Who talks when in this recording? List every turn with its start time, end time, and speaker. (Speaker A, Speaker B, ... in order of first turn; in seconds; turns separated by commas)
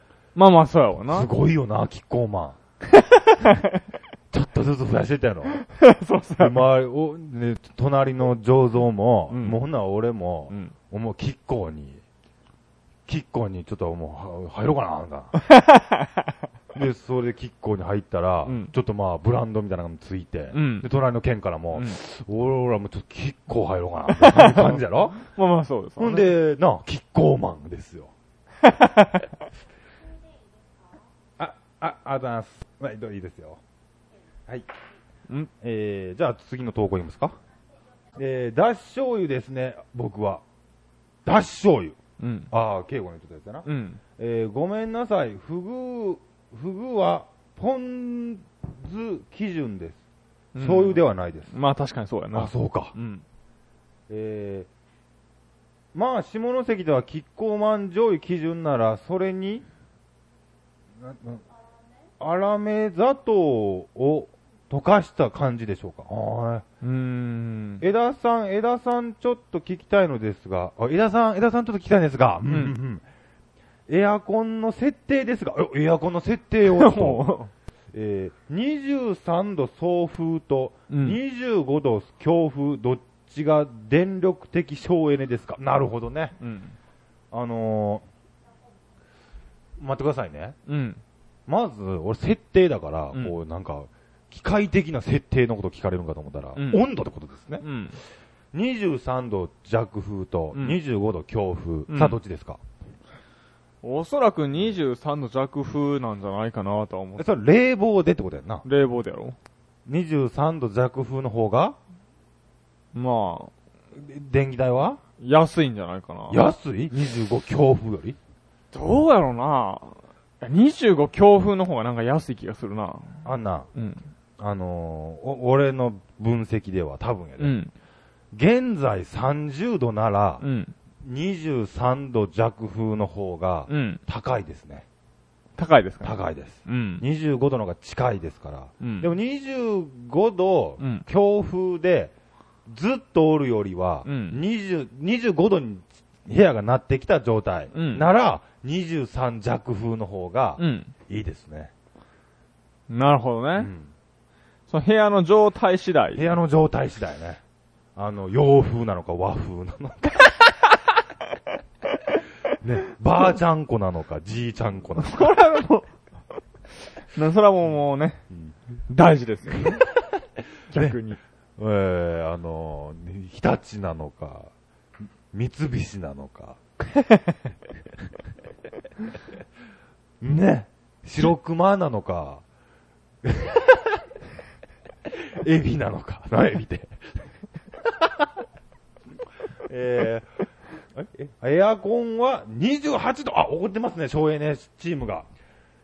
Speaker A: 0.3-1.3, Speaker B: 1.1-2.6, Speaker A: 2.9-3.8, Speaker B: 4.3-5.6, Speaker A: 5.5-6.7, Speaker B: 6.4-12.0, Speaker A: 9.3-9.6, Speaker B: 13.1-15.3, Speaker A: 15.4-16.3, Speaker B: 16.7-25.2, Speaker A: 18.4-18.7, Speaker A: 20.5-20.9, Speaker A: 21.7-22.0, Speaker A: 24.1-26.3, Speaker B: 26.0-28.1, Speaker A: 28.6-29.3, Speaker B: 31.4-33.6, Speaker B: 35.6-37.4, Speaker B: 38.1-40.4, Speaker B: 41.2-42.0, Speaker A: 42.2-42.5, Speaker B: 42.5-43.7, Speaker A: 43.6-44.0, Speaker B: 44.2-50.0, Speaker A: 50.5-53.2, Speaker B: 50.6-51.5, Speaker B: 52.3-52.9, Speaker B: 54.1-54.7, Speaker B: 55.9-59.6, Speaker B: 61.0-61.4, Speaker B: 62.2-66.6, Speaker A: 66.8-67.8, Speaker B: 67.8-73.0, Speaker A: 72.5-72.8, Speaker B: 73.9-77.3, Speaker A: 76.6-77.5, Speaker B: 77.9-86.4, Speaker A: 80.9-81.2, Speaker A: 86.4-86.7, Speaker B: 87.3-88.0, Speaker B: 89.8-90.6, Speaker A: 90.7-91.0, Speaker B: 91.5-97.6, Speaker A: 96.5-96.8, Speaker A: 97.6-98.0, Speaker B: 98.5-102.6, Speaker A: 101.9-102.2, Speaker A: 103.8-107.3, Speaker B: 107.2-108.6, Speaker A: 108.6-109.3, Speaker B: 109.8-111.8, Speaker A: 112.9-113.5, Speaker B: 113.9-115.0, Speaker A: 115.2-116.4, Speaker B: 116.3-118.2, Speaker A: 118.7-124.0, Speaker B: 123.2-123.7, Speaker B: 124.4-127.6, Speaker A: 127.4-127.7, Speaker B: 128.3-130.4, Speaker A: 130.4-130.7, Speaker B: 131.0-134.8, Speaker A: 133.7-134.0, Speaker A: 135.6-137.0, Speaker B: 136.0-142.1, Speaker A: 138.8-139.1, Speaker A: 140.8-141.0, Speaker B: 142.7-151.7, Speaker A: 144.1-144.4, Speaker A: 147.7-148.1, Speaker A: 150.6-150.9, Speaker A: 152.9-153.7, Speaker B: 153.6-153.9, Speaker A: 154.7-156.3, Speaker B: 156.1-157.4, Speaker B: 157.9-160.3, Speaker B: 162.6-165.5, Speaker A: 165.0-165.9, Speaker A: 167.1-168.2, Speaker A: 168.9-169.9, Speaker B: 169.6-169.9, Speaker A: 170.7-171.2, Speaker B: 170.7-171.0, Speaker B: 171.6-174.5, Speaker B: 175.3-176.6, Speaker A: 176.9-177.4, Speaker B: 180.2-182.4, Speaker B: 183.2-184.0, Speaker B: 185.1-187.0, Speaker B: 187.8-188.3, Speaker B: 189.7-190.3, Speaker B: 190.9-195.3